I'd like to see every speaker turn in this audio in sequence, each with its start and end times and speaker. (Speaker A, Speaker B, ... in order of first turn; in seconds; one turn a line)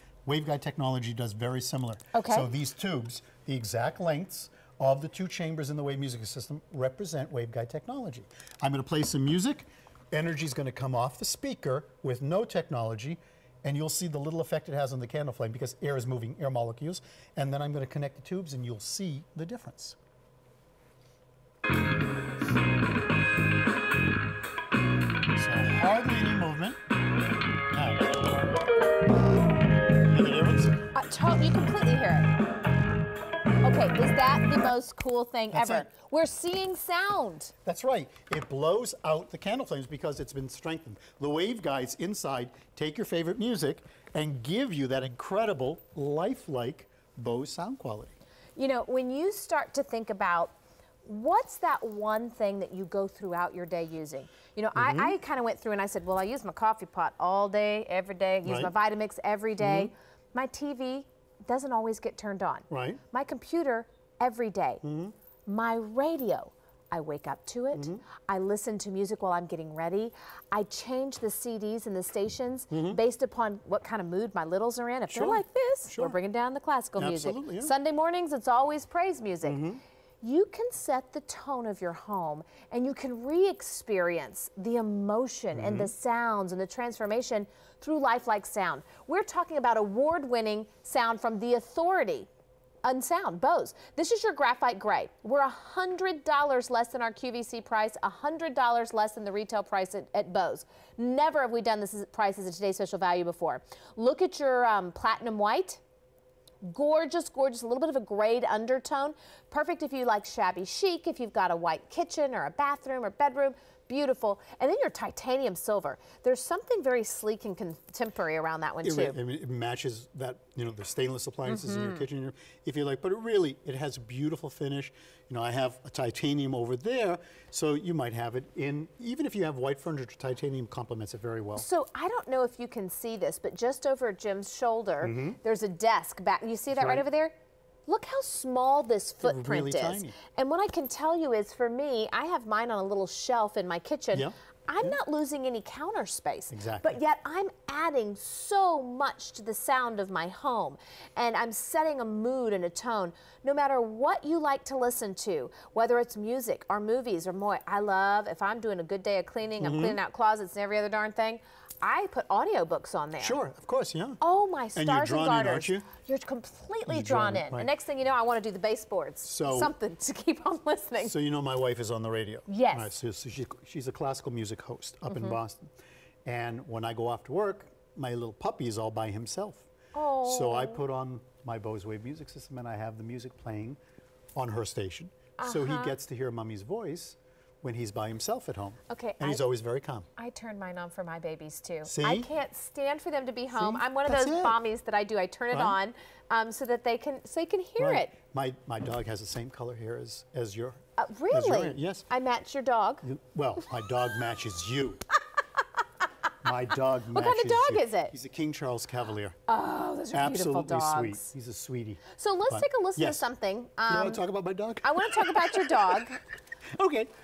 Speaker A: 0.2-20.0
Speaker B: 2.1-2.5
Speaker A: 25.3-26.8
Speaker A: 27.7-28.5
Speaker A: 30.1-30.8
Speaker B: 30.9-32.3
Speaker B: 33.6-37.5
Speaker A: 35.5-35.9
Speaker A: 37.6-48.1
Speaker B: 48.6-64.8
Speaker A: 54.8-55.1
Speaker A: 58.4-58.7
Speaker A: 59.6-59.9
Speaker A: 62.7-63.0
Speaker A: 64.8-65.1
Speaker B: 65.5-79.7
Speaker A: 67.7-68.0
Speaker A: 72.7-73.0
Speaker A: 75.1-76.2
Speaker A: 77.0-77.7
Speaker A: 79.4-79.8
Speaker B: 80.2-92.3
Speaker A: 85.5-85.9
Speaker B: 92.8-105.8
Speaker B: 106.6-119.2
Speaker A: 118.8-131.7
Speaker B: 121.5-122.0
Speaker B: 131.6-137.3
Speaker A: 135.0-135.4
Speaker A: 136.7-137.0
Speaker B: 137.9-163.4
Speaker A: 139.2-140.2
Speaker A: 144.1-144.9
Speaker A: 146.5-147.0
Speaker A: 159.6-160.0
Speaker A: 163.2-164.2
Speaker B: 164.2-171.1
Speaker A: 164.7-165.9
Speaker A: 166.9-167.7
Speaker A: 169.2-169.7
Speaker A: 171.0-175.7
Speaker B: 172.5-172.9
Speaker B: 175.1-175.4
Speaker A: 176.2-179.7
Speaker B: 179.9-180.8
Speaker A: 180.2-183.8
Speaker A: 184.3-190.1
Speaker B: 185.4-185.9
Speaker B: 188.9-189.4
Speaker B: 190.2-198.1
Speaker A: 191.8-192.3
Speaker A: 193.5-194.6
Speaker A: 195.5-195.8
Speaker A: 197.8-202.1
Speaker B: 201.0-203.0
Speaker A: 203.0-205.0
Speaker A: 206.4-209.4
Speaker B: 207.1-208.1
Speaker B: 209.5-211.3
Speaker A: 210.1-213.2
Speaker B: 212.1-214.2
Speaker A: 213.9-216.1
Speaker B: 214.8-216.2
Speaker A: 216.8-217.1